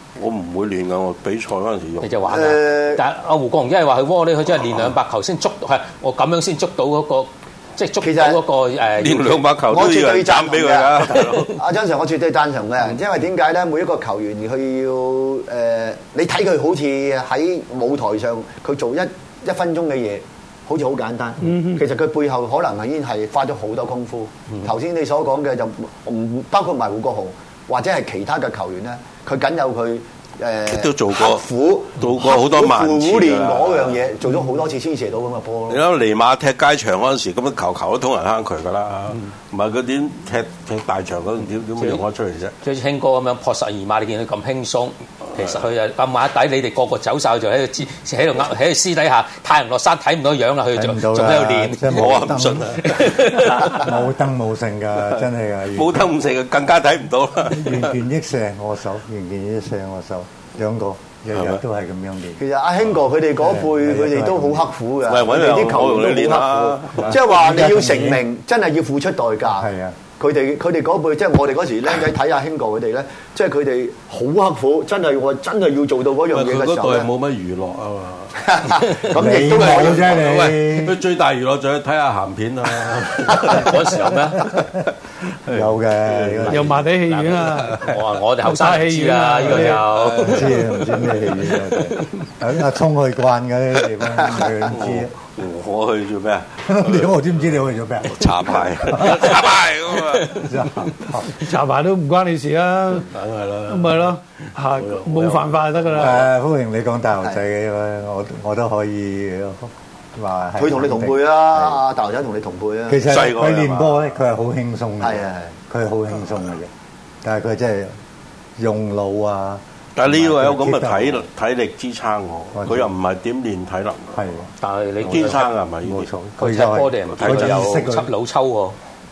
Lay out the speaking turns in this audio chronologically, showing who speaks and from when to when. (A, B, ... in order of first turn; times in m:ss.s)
0:00.2-0:02.1 A
0:02.0-0:09.5 B
0:02.3-0:03.0 C
0:08.0-0:08.4 C
0:09.0-0:11.6 A
0:09.7-0:35.8 C
0:21.4-0:21.8 D
0:30.7-0:31.4 A
0:32.0-0:34.0 A
0:35.7-0:42.6 A
0:42.6-0:52.1 B
0:50.7-0:52.8 E
0:51.9-0:53.8 A
0:52.8-0:53.9 B
0:53.6-0:56.0 E
0:55.7-0:57.9 A
0:57.5-1:02.4 E
1:01.3-1:01.6 A
1:02.4-1:09.7 C
1:03.4-1:04.7 E
1:05.1-1:07.2 A
1:07.0-1:08.2 E
1:09.5-1:10.0 E
1:10.2-1:17.1 C
1:16.3-1:23.9 A
1:18.4-1:20.2 C
1:19.1-1:21.0 E
1:23.4-1:24.4 B
1:25.5-1:26.7 A
1:25.5-1:26.8 E
1:26.5-1:27.8 D
1:27.1-1:30.6 B
1:27.3-1:28.0 A
1:28.4-1:29.8 D
1:29.6-1:31.2 A
1:30.3-1:35.1 E
1:34.7-1:37.2 A
1:36.7-1:39.4 E
1:38.0-1:40.5 A
1:40.3-1:41.3 E
1:41.4-1:43.1 D
1:43.1-1:46.3 A
1:43.7-1:46.2 D
1:45.9-1:51.8 E
1:50.6-1:53.0 C
1:52.9-1:56.7 E
1:53.1-1:54.1 A
1:55.0-1:55.5 C
1:57.2-1:57.9 E
1:58.6-2:01.3 E
2:00.0-2:04.2 A
2:02.6-2:02.9 E
2:04.2-2:04.5 E
2:04.6-2:05.4 B
2:05.0-2:06.1 A
2:05.1-2:08.1 E
2:06.4-2:08.8 B
2:07.2-2:07.8 A